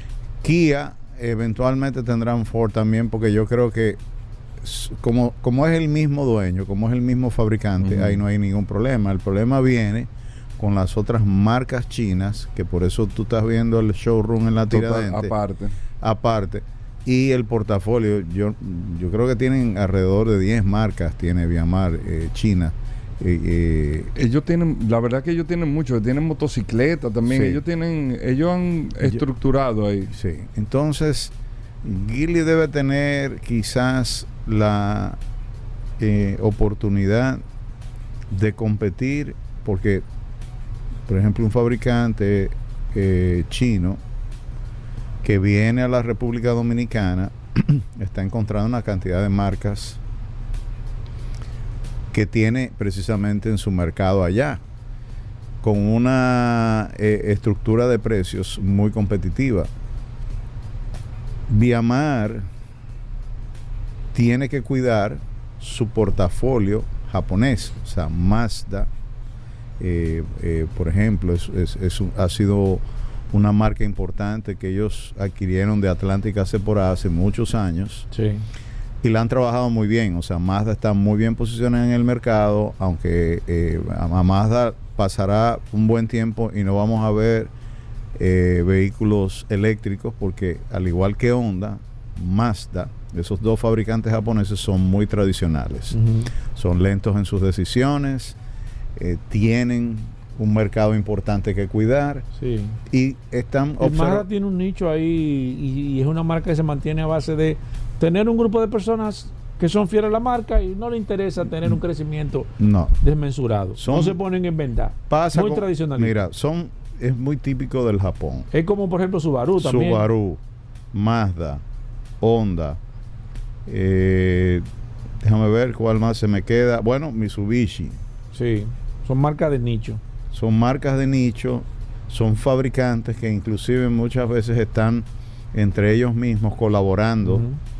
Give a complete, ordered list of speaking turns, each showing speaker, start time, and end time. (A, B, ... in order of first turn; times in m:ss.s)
0:00.4-0:04.0 A
0:04.6-0:15.3 A
0:07.8-0:08.2 B
0:14.7-0:15.8 B
0:16.0-0:24.1 A
0:24.2-0:30.1 B
0:27.3-0:27.6 A
0:30.1-0:35.2 A
0:36.0-0:37.4 A
0:38.3-0:40.0 A
0:41.1-0:44.0 A
0:45.2-0:50.0 A
0:52.1-0:54.6 A
0:55.6-0:59.7 A
1:01.5-1:02.5 A
1:04.1-1:08.9 A
1:09.8-1:18.1 A
1:18.1-1:18.4 C
1:19.0-1:27.5 A
1:28.1-1:36.0 A
1:35.9-1:36.3 C
1:36.5-1:38.4 A
1:39.0-1:42.2 A
1:42.4-1:42.8 C
1:42.9-1:44.2 A
1:43.8-1:52.5 C
1:52.6-1:53.0 A
1:53.0-1:56.1 C
1:53.8-1:54.2 A
1:55.1-1:58.5 A
1:58.5-2:00.1 C
1:59.6-2:00.4 A
2:00.9-2:01.6 A
2:02.2-2:02.8 A
2:03.7-2:04.7 A
2:05.2-2:08.0 A
2:08.3-2:10.0 C
2:10.3-2:17.5 A
2:17.2-2:17.6 C